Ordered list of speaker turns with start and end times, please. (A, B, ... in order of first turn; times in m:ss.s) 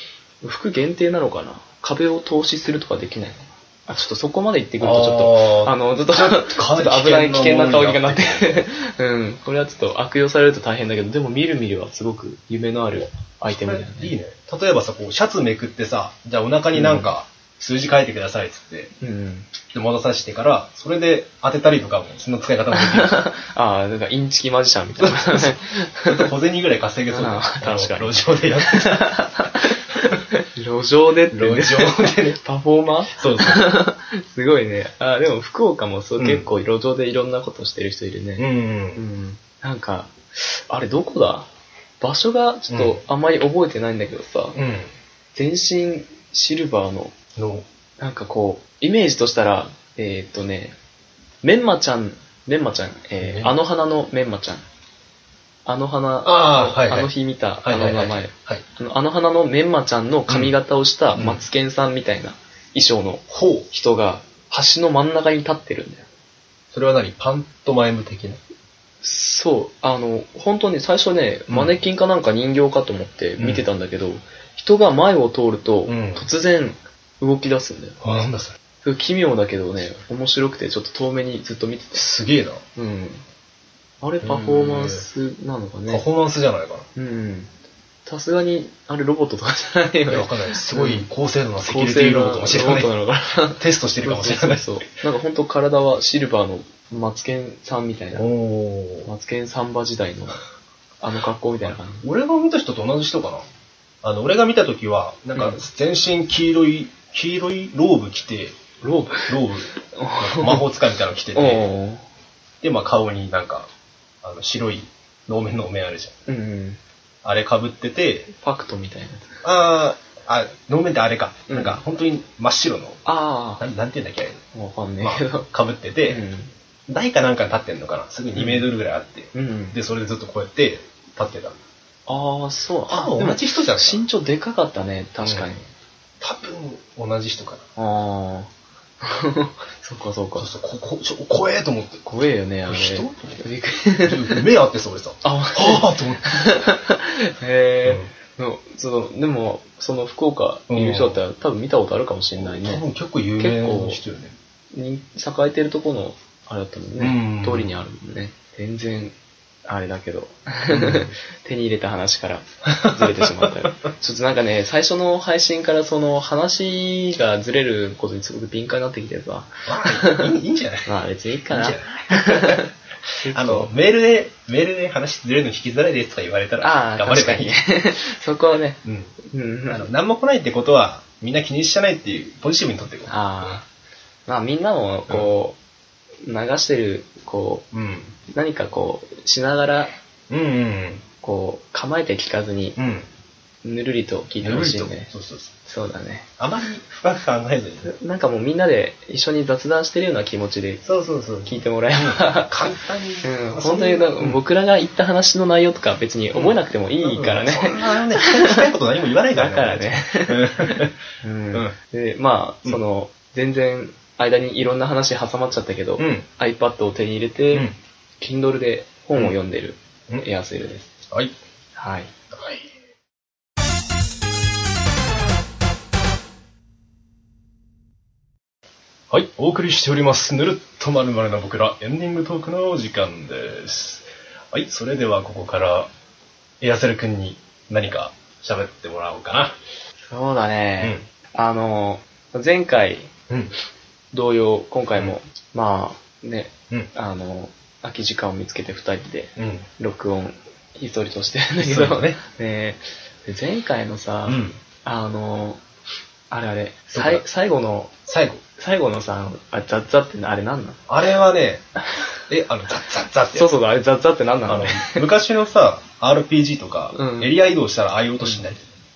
0:00.4-0:14.1 A
0:04.8-0:08.7 B
0:13.5-0:18.9 B
0:16.7-0:17.1 A
0:19.0-0:19.5 A
0:19.7-0:23.2 B
0:22.7-0:26.3 A
0:25.0-0:29.3 B
0:27.1-0:41.5 A
0:31.3-0:32.4 B
0:33.1-0:33.7 B
0:36.2-0:36.5 B
0:38.4-0:39.0 B
0:42.0-0:44.6 A
0:42.7-0:43.0 B
0:44.6-0:44.9 B
0:45.3-0:47.1 A
0:47.4-0:47.7 B
0:48.0-0:50.8 A
0:51.4-0:54.6 A
0:53.2-0:53.5 B
0:55.7-1:06.0 A
0:56.2-0:57.1 B
0:57.6-0:58.6 B
1:00.3-1:00.6 B
1:01.2-1:01.4 B
1:03.3-1:03.7 B
1:06.7-1:08.4 B
1:09.0-1:18.0 A
1:11.5-1:11.8 B
1:13.4-1:13.6 B
1:15.9-1:16.3 B
1:18.0-1:18.6 B
1:18.8-1:22.0 A
1:21.9-1:22.6 B
1:22.8-1:23.2 A
1:24.0-1:26.0 A
1:24.2-1:25.1 B
1:25.9-1:26.9 B
1:27.0-1:27.5 A
1:28.1-1:31.1 A
1:30.1-1:32.9 B
1:31.6-1:38.3 A
1:33.5-1:34.7 B
1:38.1-1:39.1 B
1:39.0-1:40.4 A
1:41.0-1:42.0 A
1:42.0-1:43.4 B
1:44.0-1:48.6 B
1:45.4-1:45.6 A
1:48.8-1:50.6 A
1:49.2-1:51.7 B
1:51.4-1:52.0 A
1:52.6-1:53.7 B
1:54.2-1:56.1 B
1:56.3-1:56.8 A
1:57.2-1:58.3 B
1:58.4-1:59.4 A
1:59.4-2:03.0 B
2:01.5-2:01.8 A
2:03.0-2:03.6 A
2:03.6-2:04.4 B
2:04.5-2:05.5 A
2:05.0-2:06.2 B
2:06.1-2:06.5 A
2:06.9-2:11.6 B
2:08.3-2:08.7 A
2:09.3-2:09.8 A
2:12.1-2:15.6 A
2:12.9-2:14.0 B
2:15.2-2:15.5 B
2:16.2-2:17.6 B
2:17.8-2:18.5 A
2:19.0-2:20.5 A
2:20.4-2:22.1 B
2:22.0-2:24.5 A
2:22.7-2:23.4 B
2:24.0-2:26.3 B
2:25.2-2:32.8 A
2:30.7-2:31.2 B
2:32.4-2:34.4 B
2:33.4-2:34.0 A
2:34.7-2:39.2 A
2:37.0-2:37.7 B
2:39.7-2:53.7 A
2:40.7-2:41.1 B
2:42.6-2:43.7 B
2:49.7-2:50.9 B
2:51.5-2:52.7 B
2:53.3-2:57.6 B
2:56.6-2:59.9 A
2:58.8-2:59.1 B
2:59.7-3:03.6 B
3:03.1-3:03.7 A
3:04.3-3:05.6 A
3:06.2-3:07.7 A
3:07.7-3:08.2 B
3:08.3-3:09.9 A
3:10.3-3:11.0 B
3:11.2-3:12.8 A
3:12.8-3:13.1 B
3:13.6-3:15.1 A
3:14.4-3:15.5 B
3:15.7-3:16.3 A
3:16.4-3:17.9 B
3:17.8-3:20.8 A
3:20.8-3:24.4 B
3:21.4-3:28.7 A
3:26.3-3:31.0 B
3:29.3-3:37.7 A
3:36.0-3:36.3 B
3:38.2-3:40.9 A
3:41.8-3:42.1 A
3:49.1-3:55.9 B
3:56.6-3:59.6 B
4:00.1-4:03.1 A
4:04.1-4:15.6 A
4:09.4-4:09.7 B
4:11.6-4:12.2 B
4:14.3-4:14.6 B
4:16.3-4:17.9 A
4:16.9-4:17.2 B
4:18.1-4:18.4 B
4:18.6-4:20.8 A
4:20.9-4:21.6 B
4:22.3-4:23.5 B
4:23.3-4:25.1 A
4:24.5-4:28.6 B
4:26.9-4:27.3 A